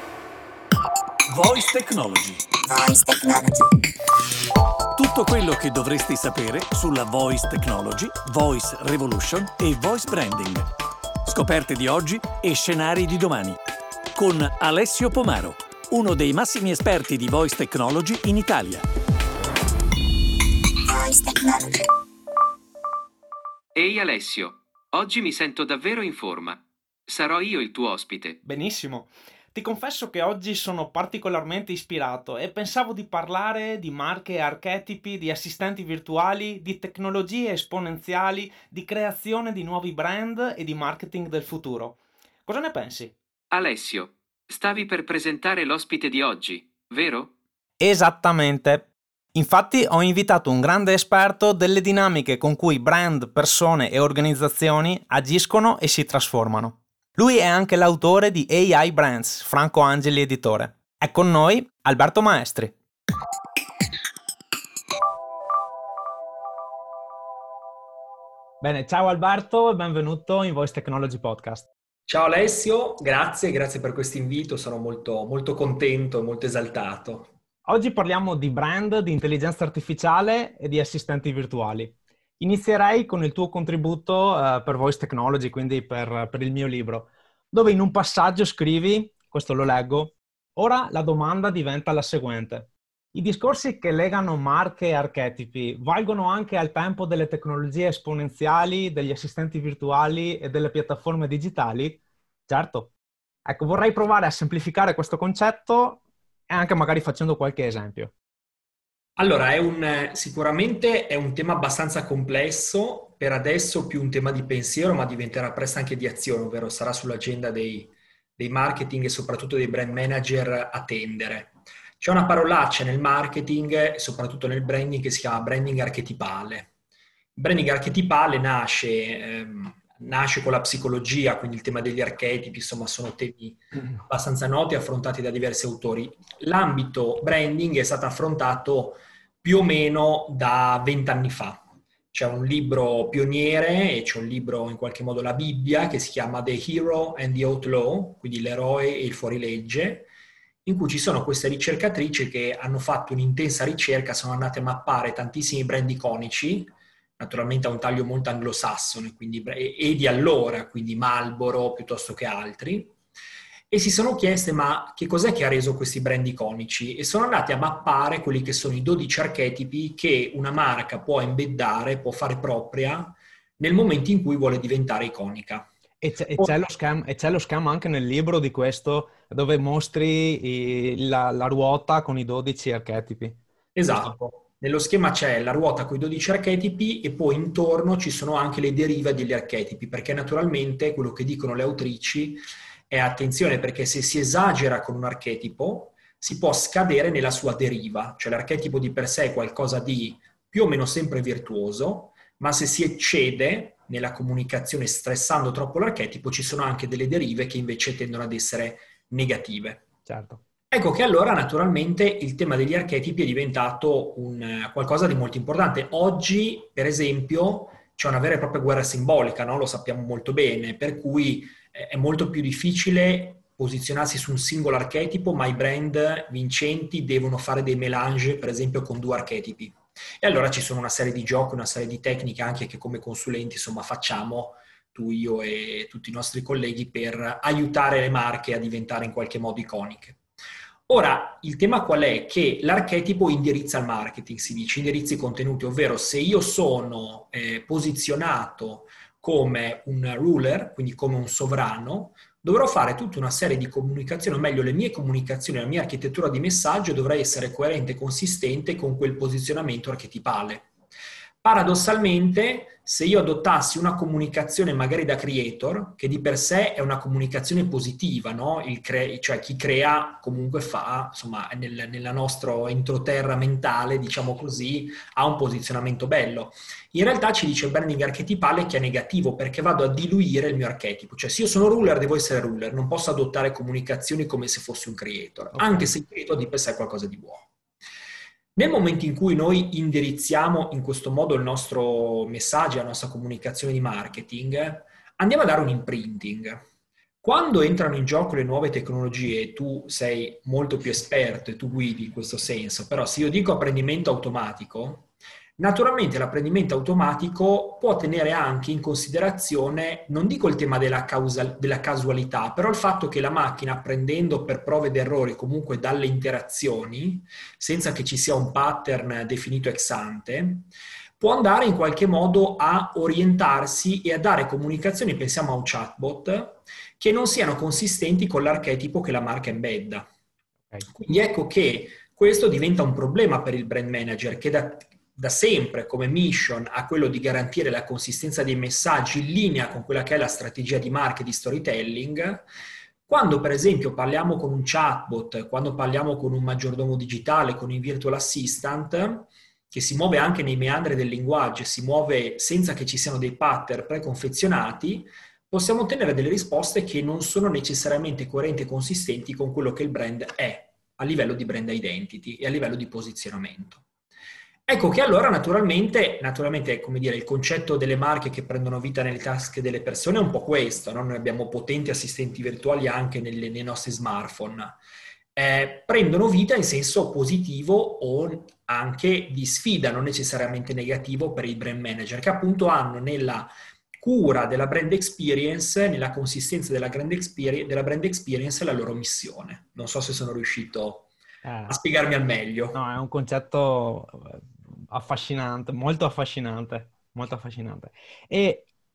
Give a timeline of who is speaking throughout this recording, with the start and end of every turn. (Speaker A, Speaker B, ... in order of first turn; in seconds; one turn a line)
Speaker A: 1.3-2.4
Speaker B: 2.6-3.7
Speaker A: 4.9-10.7
Speaker A: 11.2-13.6
Speaker A: 14.1-18.8
Speaker B: 20.8-21.9
Speaker C: 23.7-28.4
Speaker D: 28.4-43.1
Speaker C: 43.5-47.3
Speaker D: 47.8-62.7
Speaker D: 68.6-71.7
Speaker E: 72.1-77.3
Speaker D: 77.7-102.9
Speaker D: 103.5-108.1
Speaker E: 109.2-126.7
Speaker E: 127.3-150.1
Speaker E: 150.6-162.9
Speaker E: 163.7-175.7
Speaker D: 176.0-183.4
Speaker E: 183.7-209.8
Speaker D: 210.1-210.4
Speaker E: 210.7-240.2
Speaker E: 240.9-260.7
Speaker E: 261.4-287.5
Speaker D: 285.5-285.9
Speaker E: 288.6-296.6
Speaker E: 297.2-330.1
Speaker E: 330.9-342.4
Speaker E: 343.1-363.8
Speaker E: 364.7-374.8
Speaker E: 375.4-391.1
Speaker D: 391.4-391.8
Speaker E: 391.7-392.8
Speaker D: 392.7-398.7